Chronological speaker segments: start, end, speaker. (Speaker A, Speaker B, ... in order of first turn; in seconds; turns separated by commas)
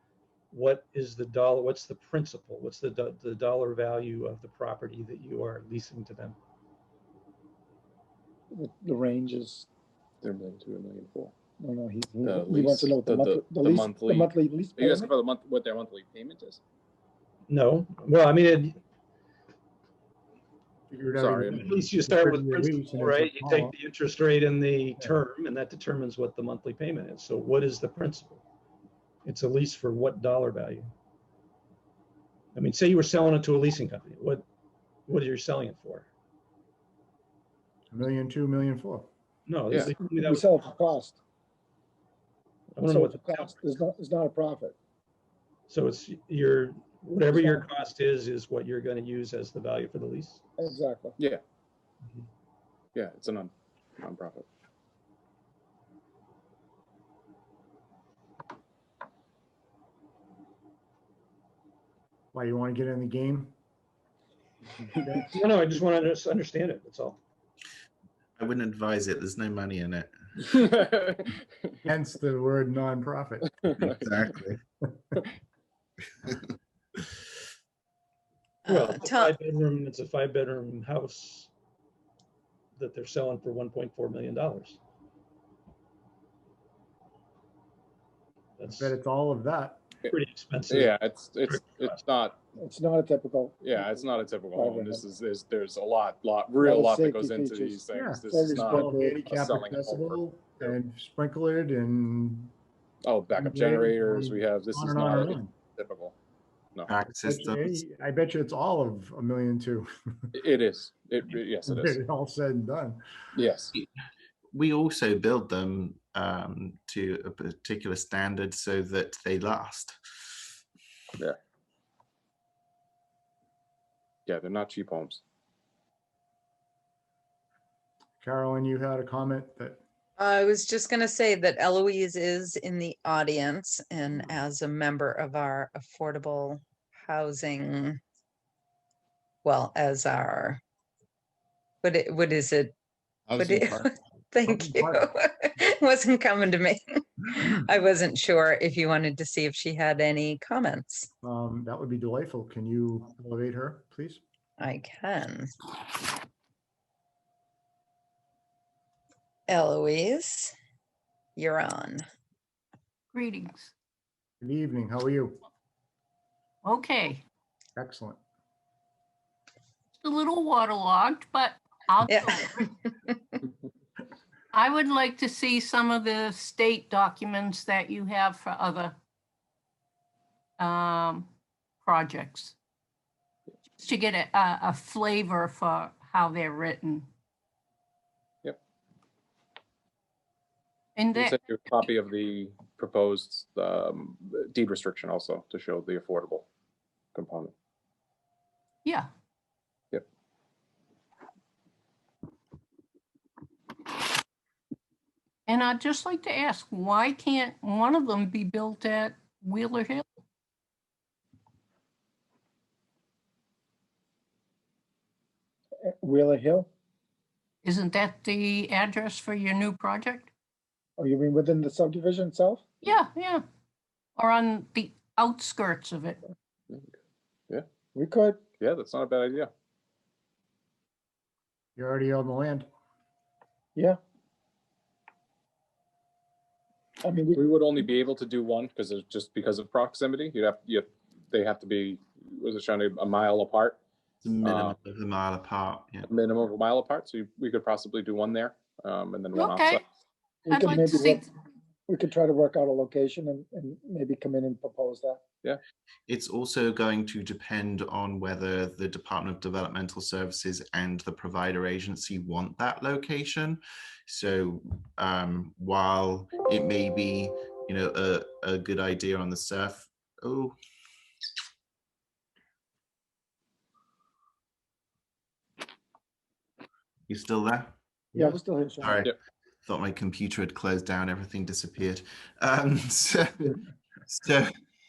Speaker A: 0.5-6.4, Speaker B: 8.5-9.7, Speaker C: 10.2-11.3, Speaker B: 11.6-15.1, Speaker C: 12.2-16.6, Speaker A: 17.5-18.8, Speaker D: 20.9-23.7, Speaker C: 21.1-21.7, Speaker A: 21.6-28.4, Speaker A: 29.2-30.9, Speaker A: 32.5-34.4, Speaker A: 35.1-36.1, Speaker D: 37.9-39.1, Speaker A: 39.5-40.5, Speaker B: 40.1-41.2, Speaker A: 42.8-43.4, Speaker B: 42.9-44.7, Speaker A: 45.7-50.4, Speaker B: 47.3-47.6, Speaker B: 50.6-51.1, Speaker C: 52.9-54.5, Speaker D: 62.3-63.5, Speaker D: 65.0-65.3, Speaker A: 65.2-67.2, Speaker E: 68.4-70.1, Speaker C: 70.5-71.4, Speaker D: 71.8-73.6, Speaker E: 73.8-74.6, Speaker F: 78.7-79.3, Speaker A: 78.7-81.5, Speaker A: 82.8-84.8, Speaker A: 88.6-88.9, Speaker D: 88.7-89.8, Speaker A: 90.1-90.9, Speaker C: 90.7-92.4, Speaker A: 91.5-92.0, Speaker B: 92.6-95.0, Speaker C: 93.6-100.7, Speaker B: 96.6-99.3, Speaker D: 97.9-102.5, Speaker C: 103.0-106.2, Speaker D: 103.3-105.5, Speaker E: 106.9-107.8, Speaker D: 107.1-110.3, Speaker C: 110.3-112.0, Speaker D: 111.6-113.0, Speaker C: 113.3-113.7, Speaker E: 114.5-120.0, Speaker C: 124.3-125.2, Speaker D: 128.2-129.8, Speaker F: 130.2-138.0, Speaker F: 139.4-140.6, Speaker F: 141.8-142.7, Speaker F: 143.3-151.1, Speaker D: 144.4-145.1, Speaker D: 151.2-154.2, Speaker F: 154.6-155.5, Speaker F: 159.5-160.5, Speaker F: 161.3-162.0, Speaker A: 163.1-163.5, Speaker D: 164.4-165.4, Speaker A: 166.6-167.0, Speaker G: 166.8-167.2, Speaker D: 167.8-168.2, Speaker A: 170.0-172.6, Speaker G: 170.1-171.5, Speaker F: 172.1-172.6, Speaker G: 174.5-178.9, Speaker A: 174.6-178.8, Speaker G: 180.6-181.2, Speaker A: 180.8-181.1, Speaker A: 181.8-182.4, Speaker G: 181.9-182.3, Speaker G: 183.8-187.0, Speaker A: 184.6-185.2, Speaker A: 185.8-186.9, Speaker A: 191.0-191.2, Speaker C: 191.1-196.5, Speaker C: 197.1-197.5, Speaker A: 205.5-210.0, Speaker G: 205.6-210.0, Speaker B: 215.8-216.7, Speaker A: 217.7-220.2, Speaker G: 217.8-220.2, Speaker B: 221.0-222.6, Speaker A: 222.8-223.4, Speaker A: 224.2-226.1, Speaker G: 224.4-226.2, Speaker B: 227.9-228.4, Speaker C: 228.6-229.5, Speaker D: 231.8-232.7, Speaker B: 237.0-237.4, Speaker C: 237.3-243.8, Speaker E: 244.2-246.1, Speaker C: 244.4-244.8, Speaker C: 246.0-249.8, Speaker A: 249.3-249.8, Speaker B: 250.4-251.2, Speaker A: 250.5-251.2, Speaker B: 251.9-255.2, Speaker E: 256.1-270.6, Speaker E: 277.1-277.7, Speaker D: 278.1-278.4, Speaker B: 278.1-279.0, Speaker E: 278.8-279.1, Speaker E: 279.6-284.5